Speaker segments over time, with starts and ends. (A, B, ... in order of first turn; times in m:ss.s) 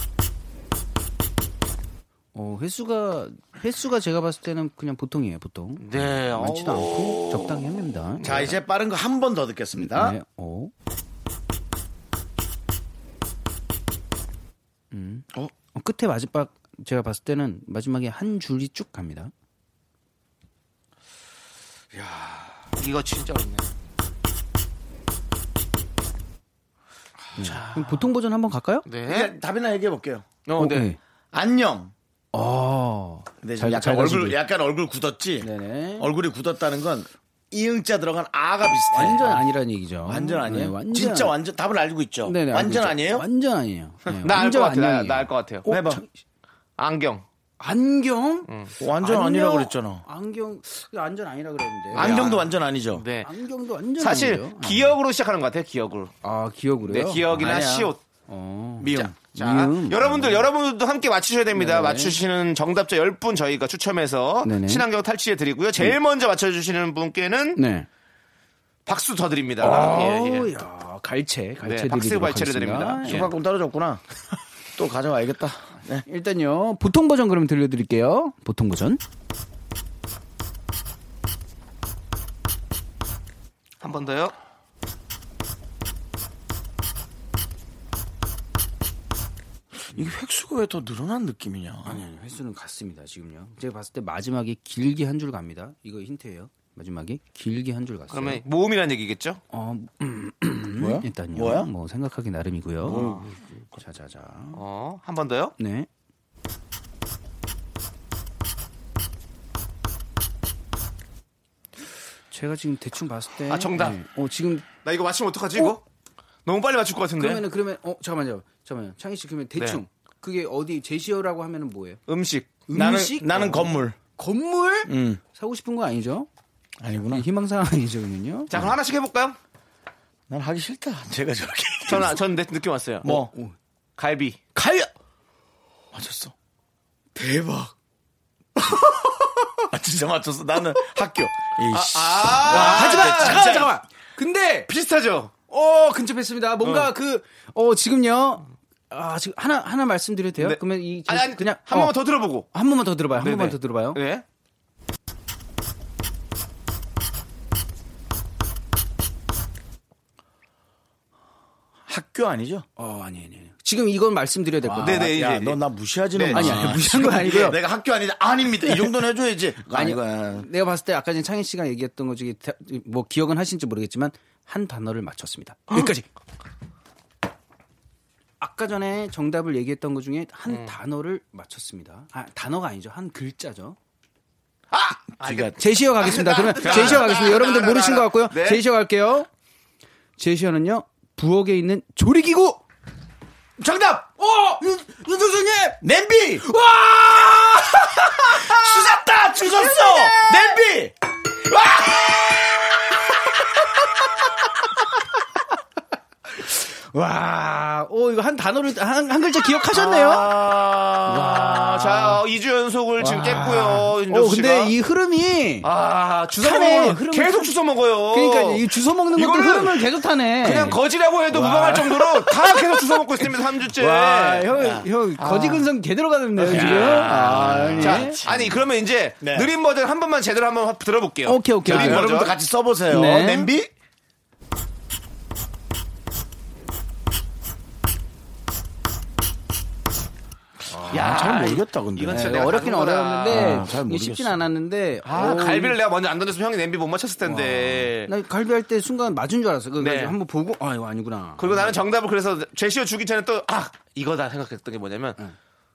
0:02.3-0:08.6 A
0:05.8-0:07.5 B
0:08.2-0:10.2 C
0:09.8-0:10.7 A
0:14.9-0:19.3 A
0:22.0-0:22.4 C
0:22.8-0:23.7 B
0:27.4-0:28.1 B
0:27.4-0:28.9 A
0:28.8-0:29.3 B
0:29.1-0:30.3 C
0:30.5-0:30.9 B
0:30.6-0:31.0 A
0:31.3-0:31.9 C
0:32.3-0:34.4 A
0:33.4-0:39.5 C
0:35.4-0:36.1 A
0:38.9-0:41.3 A
0:40.1-0:43.3 C
0:42.2-0:46.1 A
0:44.2-0:45.7 B
0:45.7-0:46.0 C
0:46.8-0:47.2 B
0:47.6-0:48.5 A
0:48.4-0:48.7 B
0:48.8-0:50.0 C
0:49.0-0:52.4 A
0:51.9-0:53.3 B
0:52.0-0:53.0 C
0:53.2-0:55.0 A
0:54.0-0:56.1 B
0:56.2-0:57.8 A
0:56.8-0:58.0 B
0:57.4-0:57.9 C
0:58.3-1:00.5 A
0:58.8-0:59.1 C
0:58.9-1:07.6 B
1:01.5-1:02.2 A
1:04.4-1:04.9 A
1:07.6-1:07.9 A
1:08.9-1:10.5 B
1:09.6-1:13.3 A
1:11.6-1:13.3 B
1:13.0-1:14.0 C
1:14.8-1:16.0 C
1:16.1-1:19.0 A
1:23.8-1:24.3 B
1:29.9-1:32.0 C
1:31.8-1:38.4 A
1:38.1-1:39.4 B
1:39.5-1:43.1 A
1:40.8-1:41.7 C
1:42.8-1:43.8 C
1:42.9-1:43.3 B
1:43.8-1:44.6 A
1:44.5-1:45.6 B
1:45.6-1:45.9 A
1:52.3-1:54.7 A
1:53.5-1:54.0 B
1:54.8-1:55.8 B
1:56.4-1:57.4 B
1:57.2-2:02.0 A
2:02.1-2:02.6 B
2:02.7-2:06.3 A
2:02.7-2:04.0 C
2:04.9-2:05.2 C
2:06.8-2:07.3 C
2:07.1-2:08.5 A
2:08.5-2:09.4 B
2:10.3-2:12.2 C
2:11.9-2:13.2 B
2:13.0-2:13.3 C
2:13.1-2:13.5 A
2:14.0-2:14.4 B
2:14.6-2:14.9 A
2:15.9-2:16.3 C
2:17.2-2:17.7 C
2:19.7-2:23.7 C
2:21.7-2:23.5 B
2:22.4-2:24.7 A
2:24.7-2:25.3 B
2:25.5-2:34.0 A
2:26.6-2:26.9 B
2:30.4-2:32.5 B
2:33.2-2:34.2 B
2:41.9-2:42.7 C
2:42.8-2:45.1 A
2:44.6-2:50.5 C
2:44.8-2:45.6 B
2:46.1-2:46.6 B
2:46.3-2:47.6 A
2:49.7-2:56.1 A
2:58.4-3:03.8 A
3:00.5-3:00.8 B
3:04.7-3:08.6 B
3:05.2-3:05.6 C
3:05.6-3:09.3 A
3:06.1-3:07.2 C
3:10.2-3:12.6 A
3:13.6-3:14.1 C
3:14.2-3:15.8 A
3:15.8-3:16.5 C
3:16.4-3:20.6 A
3:18.2-3:20.9 C
3:21.4-3:22.8 C
3:26.4-3:30.4 A
3:29.7-3:32.0 C
3:31.1-3:34.7 B
3:31.3-3:32.2 A
3:33.0-3:35.7 A
3:35.6-3:38.6 B
3:36.4-3:37.6 A
3:38.1-3:43.0 A
3:39.2-3:39.8 B
3:40.4-3:44.5 B
3:43.7-3:48.2 A
3:44.6-3:44.9 C
3:45.2-3:45.7 B
3:46.4-3:52.3 B
3:46.4-3:48.6 C
3:49.2-3:49.5 C
3:51.2-3:52.1 A
3:51.7-3:53.7 C
3:52.9-3:53.6 A
4:00.7-4:01.2 A
4:00.9-4:02.4 C
4:00.9-4:03.6 B
4:02.1-4:05.8 A
4:03.3-4:04.4 C
4:05.0-4:08.1 B
4:07.2-4:11.8 A
4:09.8-4:10.2 B
4:11.4-4:15.2 B